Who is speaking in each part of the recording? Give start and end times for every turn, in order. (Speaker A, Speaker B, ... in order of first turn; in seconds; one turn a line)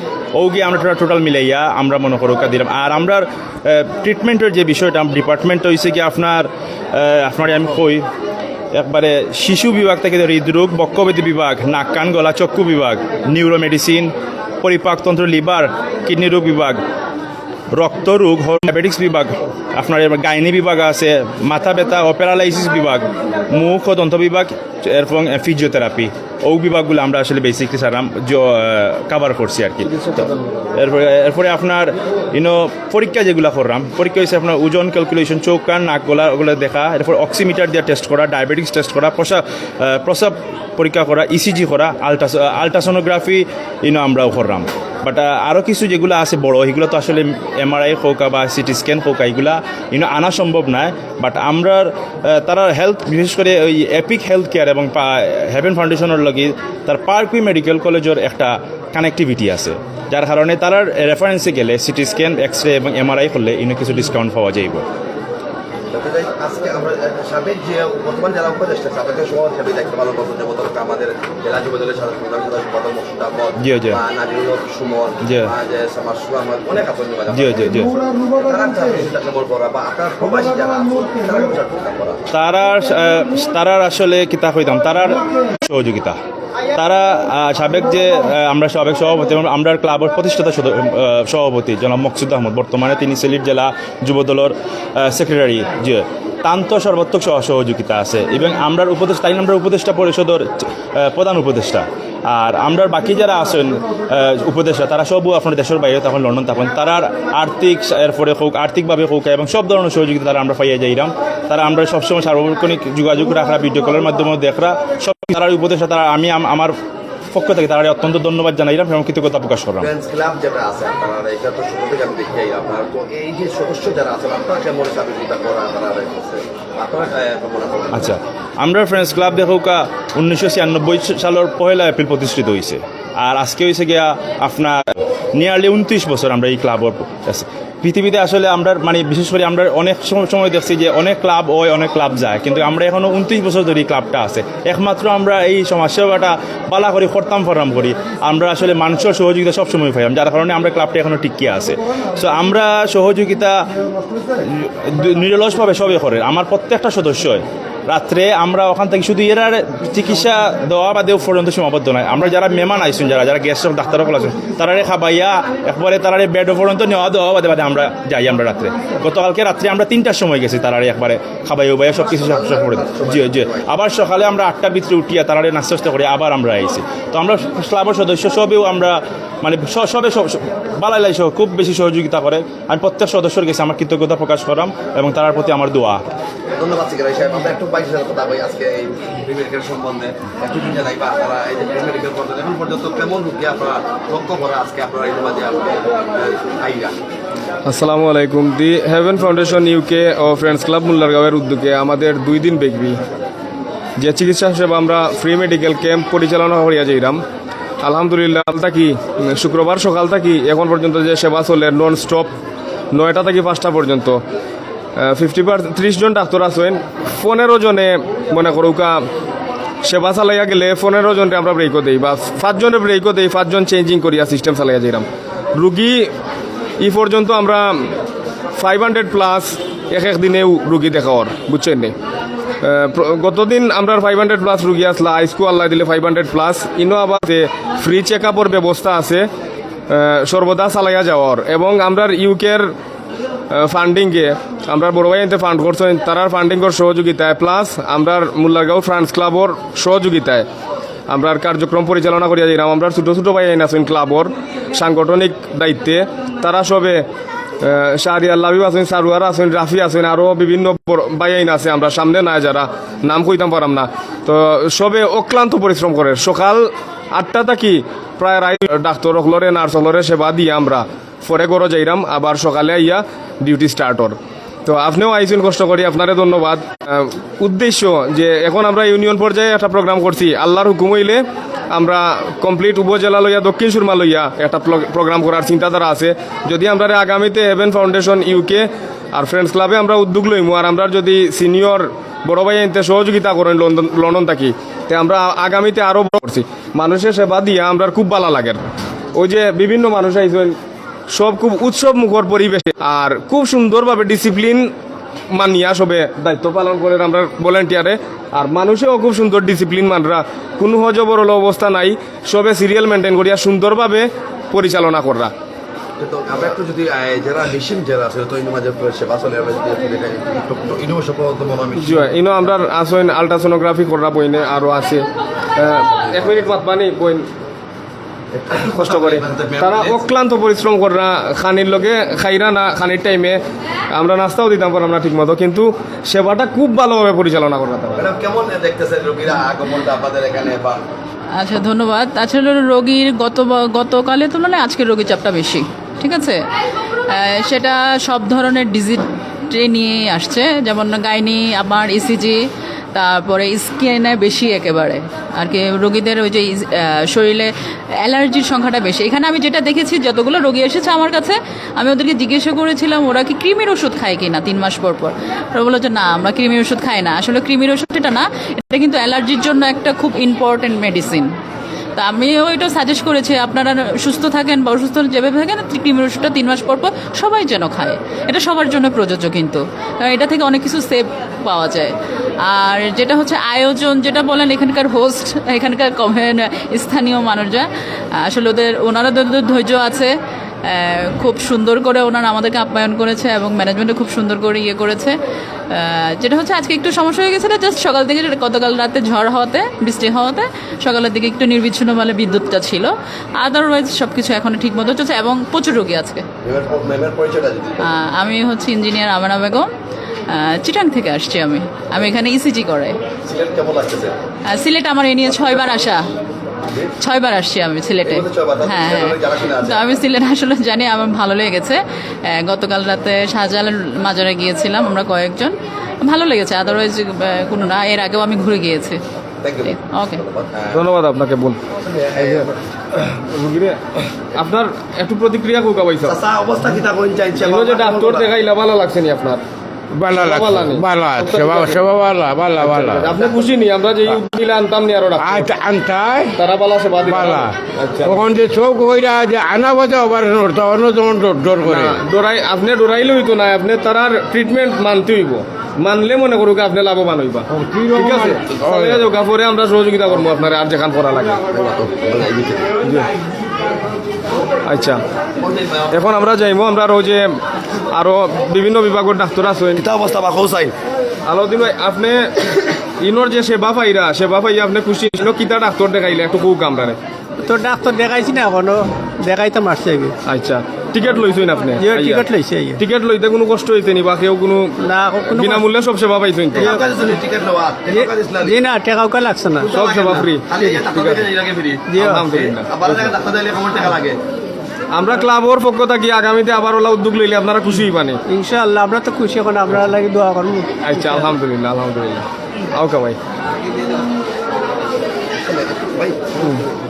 Speaker A: 0.3-8.1
Speaker A: 8.7-16.8
Speaker A: 17.7-64.8
Speaker B: 29.9-30.7
Speaker C: 65.9-82.2
Speaker A: 73.6-74.0
Speaker A: 75.2-75.5
Speaker A: 77.3-77.9
Speaker A: 82.3-86.2
Speaker A: 86.8-116.7
Speaker A: 117.3-119.9
Speaker C: 119.8-128.1
Speaker A: 127.9-134.8
Speaker A: 135.4-153.6
Speaker A: 154.3-186.0
Speaker C: 172.1-173.7
Speaker C: 186.6-196.9
Speaker B: 197.7-203.0
Speaker B: 204.0-207.2
Speaker B: 207.8-212.3
Speaker B: 212.9-214.2
Speaker B: 215.0-219.0
Speaker B: 219.8-226.1
Speaker B: 226.8-227.9
Speaker B: 228.6-231.9
Speaker B: 232.6-239.3
Speaker B: 239.9-242.7
Speaker B: 243.5-250.5
Speaker B: 251.1-257.0
Speaker B: 257.6-298.6
Speaker B: 299.1-300.6
Speaker B: 301.1-304.7
Speaker B: 305.3-315.3
Speaker C: 316.0-322.1
Speaker B: 321.8-325.1
Speaker B: 325.6-327.3
Speaker C: 326.0-326.5
Speaker C: 328.3-330.0
Speaker B: 328.7-333.4
Speaker B: 333.9-338.1
Speaker C: 338.0-340.8
Speaker D: 341.4-346.4
Speaker D: 347.1-352.4
Speaker D: 352.9-371.3
Speaker D: 372.0-381.9
Speaker D: 382.4-387.7
Speaker D: 388.2-390.1
Speaker D: 390.6-395.2
Speaker D: 395.7-406.2
Speaker C: 406.4-407.9
Speaker D: 407.8-409.7
Speaker D: 410.3-413.0
Speaker C: 413.2-414.1
Speaker D: 414.5-416.0
Speaker C: 415.4-415.9
Speaker D: 417.0-429.0
Speaker C: 418.0-419.9
Speaker C: 429.4-430.8
Speaker D: 429.7-430.2
Speaker B: 430.7-431.6
Speaker C: 431.9-432.5
Speaker B: 433.2-433.8
Speaker B: 434.4-436.2
Speaker C: 436.1-438.3
Speaker B: 437.4-439.4
Speaker B: 440.0-445.6
Speaker E: 440.0-443.0
Speaker E: 445.3-446.3
Speaker B: 446.3-448.3
Speaker E: 447.1-447.5
Speaker E: 448.1-452.0
Speaker B: 451.6-461.4
Speaker C: 461.5-462.7
Speaker B: 462.8-463.1
Speaker B: 464.7-465.0
Speaker C: 465.4-466.2
Speaker B: 465.9-467.4
Speaker B: 467.9-469.8
Speaker C: 469.8-470.7
Speaker B: 471.3-477.0
Speaker F: 477.4-480.1
Speaker B: 480.2-486.7
Speaker F: 481.8-482.8
Speaker F: 484.9-485.6
Speaker C: 486.5-488.6
Speaker F: 487.9-489.7
Speaker C: 489.6-494.2
Speaker B: 489.7-491.2
Speaker F: 490.6-490.9
Speaker F: 491.9-492.2
Speaker B: 492.0-493.1
Speaker B: 494.9-498.2
Speaker F: 498.3-500.7
Speaker B: 500.8-503.2
Speaker C: 505.4-506.5